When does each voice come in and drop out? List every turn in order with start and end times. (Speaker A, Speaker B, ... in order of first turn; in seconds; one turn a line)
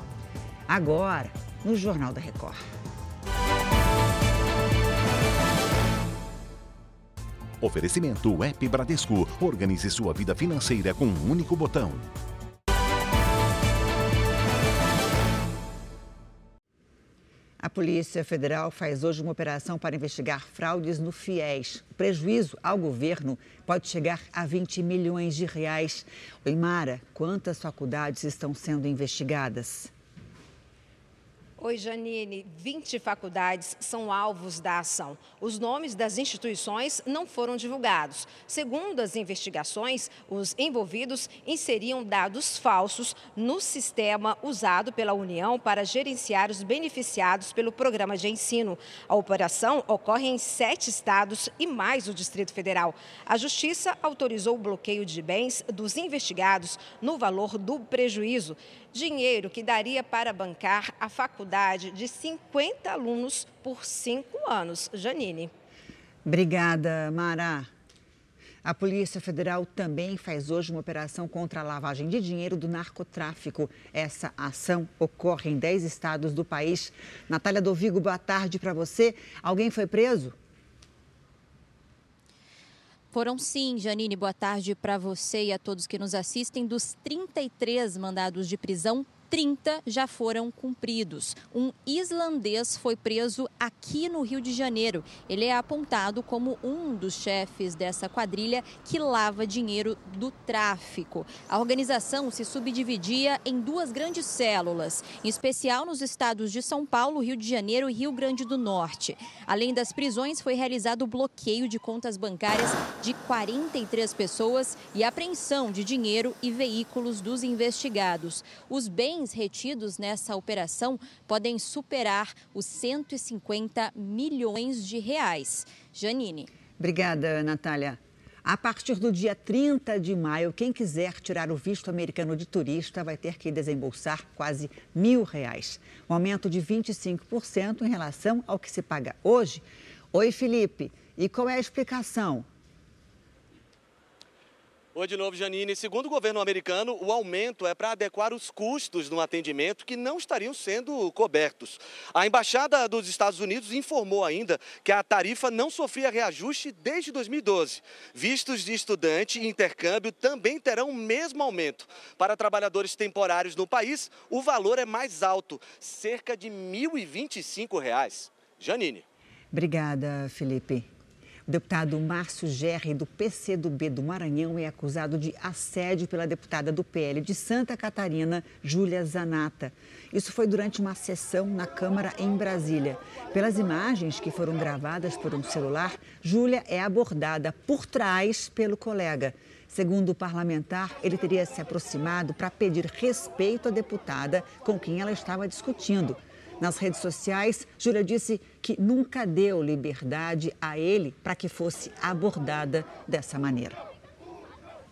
Speaker A: 0.7-2.6
Speaker B: 7.6-12.0
Speaker A: 17.6-29.9
Speaker C: 31.6-65.5
Speaker A: 66.2-67.7
Speaker A: 68.6-80.3
Speaker D: 83.1-126.5
Speaker A: 126.8-142.4
Speaker E: 144.9-169.0
Speaker A: 169.5-170.8
Speaker A: 171.5-203.8